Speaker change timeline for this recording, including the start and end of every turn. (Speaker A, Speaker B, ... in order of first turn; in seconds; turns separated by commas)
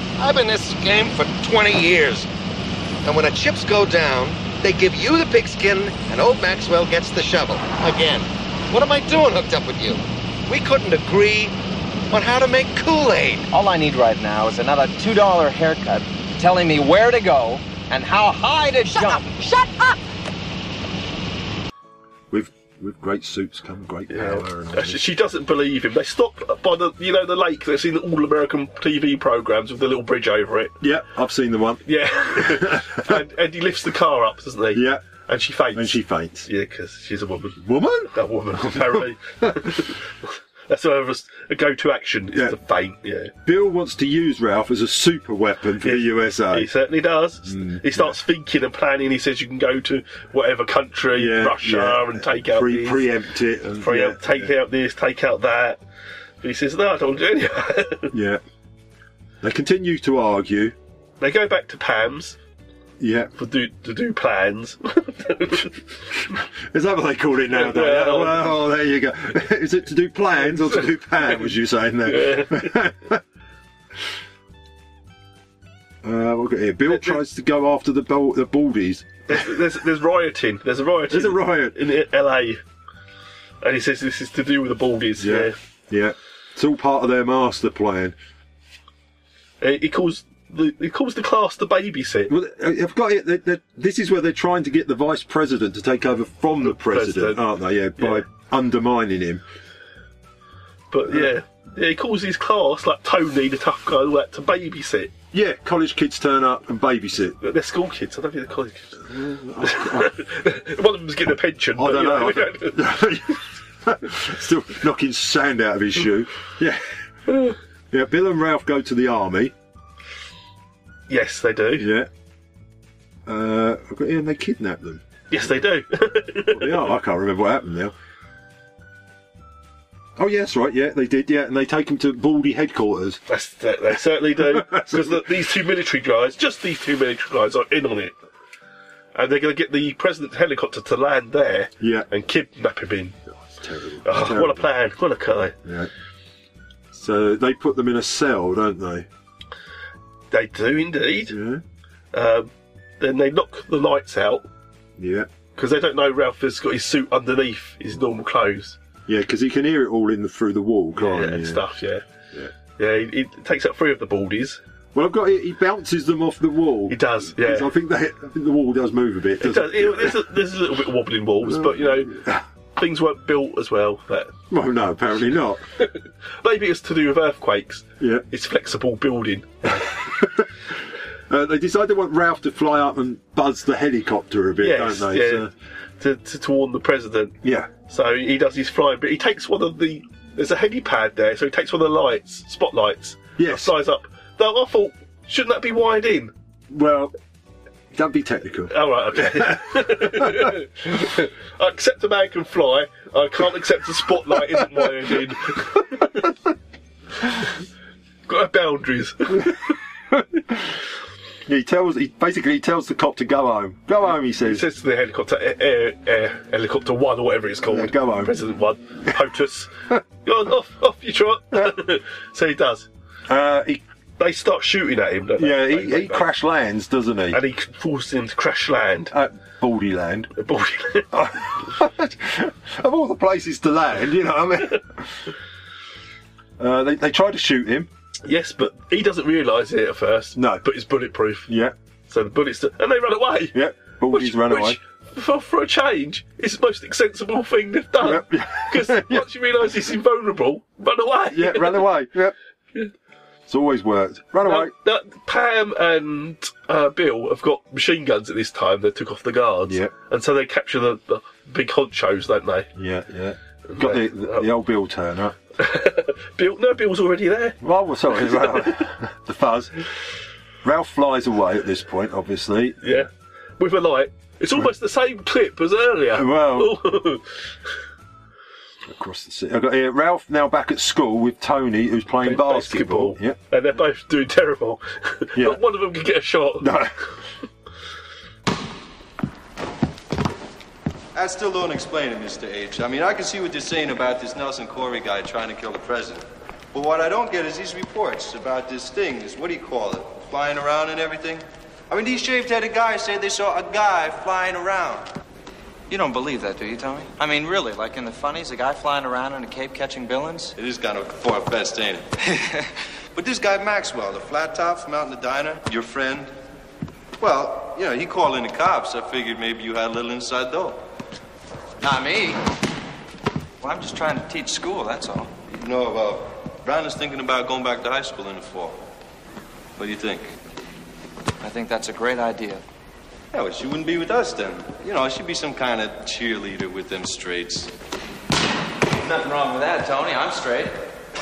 Speaker A: 0.2-2.3, Speaker A: 3.0-11.6, Speaker A: 12.1-13.5, Speaker B: 13.5-19.5, Speaker C: 22.3-25.0, Speaker D: 24.1-30.8, Speaker C: 30.8-33.2, Speaker D: 31.9-40.0, Speaker C: 34.7-35.0, Speaker C: 35.7-36.5, Speaker C: 37.6-39.7, Speaker D: 40.7-43.3, Speaker C: 43.5-46.7, Speaker D: 45.8-53.1, Speaker C: 47.4-48.2, Speaker C: 51.1-54.5, Speaker D: 53.8-55.8, Speaker D: 56.4-58.1, Speaker C: 58.1-58.4, Speaker C: 59.4-60.8, Speaker D: 61.2-62.4, Speaker C: 63.0-63.3, Speaker D: 63.4-65.8, Speaker C: 66.7-73.2, Speaker D: 67.5-68.6, Speaker D: 72.0-72.8, Speaker C: 76.0-79.5, Speaker D: 76.9-77.2, Speaker D: 79.3-82.6, Speaker C: 81.1-81.8, Speaker D: 83.6-85.6, Speaker C: 85.2-88.2, Speaker D: 89.6-92.3, Speaker C: 92.3-99.4, Speaker D: 96.6-97.5, Speaker D: 98.0-98.2, Speaker D: 100.9-105.1, Speaker C: 105.3-107.4, Speaker D: 107.4-109.0, Speaker C: 109.1-110.2, Speaker D: 109.6-112.8, Speaker C: 111.8-116.8, Speaker C: 117.9-119.5, Speaker D: 121.1-121.9, Speaker C: 121.8-122.1, Speaker C: 123.3-125.0, Speaker D: 125.3-126.9, Speaker C: 126.5-127.9, Speaker C: 130.2-133.2, Speaker D: 133.3-138.1, Speaker C: 134.4-135.3, Speaker D: 139.2-143.2, Speaker C: 141.8-142.1, Speaker C: 143.3-144.7, Speaker D: 144.0-145.6, Speaker C: 145.6-145.9, Speaker C: 146.9-149.1, Speaker D: 150.3-151.4, Speaker C: 151.3-151.6, Speaker D: 152.1-154.5, Speaker C: 155.0-155.3, Speaker D: 155.6-158.8, Speaker C: 159.1-161.7, Speaker D: 161.0-162.0, Speaker D: 162.8-164.6, Speaker C: 164.9-170.3, Speaker D: 166.9-167.7, Speaker D: 169.4-172.2, Speaker C: 171.4-172.4, Speaker D: 172.8-174.3, Speaker C: 174.5-175.6, Speaker D: 175.8-179.8, Speaker C: 178.0-178.2, Speaker C: 179.8-180.5, Speaker C: 181.3-185.5, Speaker D: 184.6-185.5, Speaker D: 186.0-187.4, Speaker C: 187.4-187.7, Speaker D: 187.9-196.3, Speaker C: 193.4-193.7, Speaker C: 196.7-197.1, Speaker C: 197.9-200.6, Speaker D: 198.7-206.1, Speaker D: 208.3-209.7, Speaker C: 210.1-210.6, Speaker C: 211.5-214.7, Speaker D: 214.3-222.9, Speaker C: 217.7-218.4, Speaker C: 223.3-223.8, Speaker D: 224.2-226.3, Speaker C: 225.4-227.4, Speaker D: 227.3-229.1, Speaker C: 229.1-230.3, Speaker D: 230.4-231.5, Speaker C: 231.1-235.1, Speaker C: 236.6-237.9, Speaker D: 238.3-241.5, Speaker C: 240.3-240.7, Speaker C: 241.5-241.8, Speaker D: 242.1-251.9, Speaker C: 243.5-244.8, Speaker C: 248.0-249.3, Speaker C: 251.3-252.3, Speaker C: 253.5-254.7, Speaker D: 254.4-262.7, Speaker C: 259.7-259.9, Speaker C: 262.8-265.4, Speaker D: 263.7-264.5, Speaker D: 265.6-267.6, Speaker C: 267.6-269.8, Speaker D: 268.1-268.9, Speaker C: 270.6-273.1, Speaker D: 272.8-277.3, Speaker C: 276.1-276.8, Speaker C: 278.9-283.4, Speaker D: 282.2-286.8, Speaker C: 285.4-285.6, Speaker C: 286.6-286.9, Speaker E: 291.1-305.1, Speaker F: 305.9-310.4, Speaker E: 310.6-312.1, Speaker E: 313.1-316.3, Speaker E: 317.2-320.8, Speaker F: 323.6-325.2, Speaker E: 325.5-328.8, Speaker E: 329.8-330.3, Speaker F: 331.5-332.6, Speaker E: 333.3-337.7, Speaker F: 339.1-340.7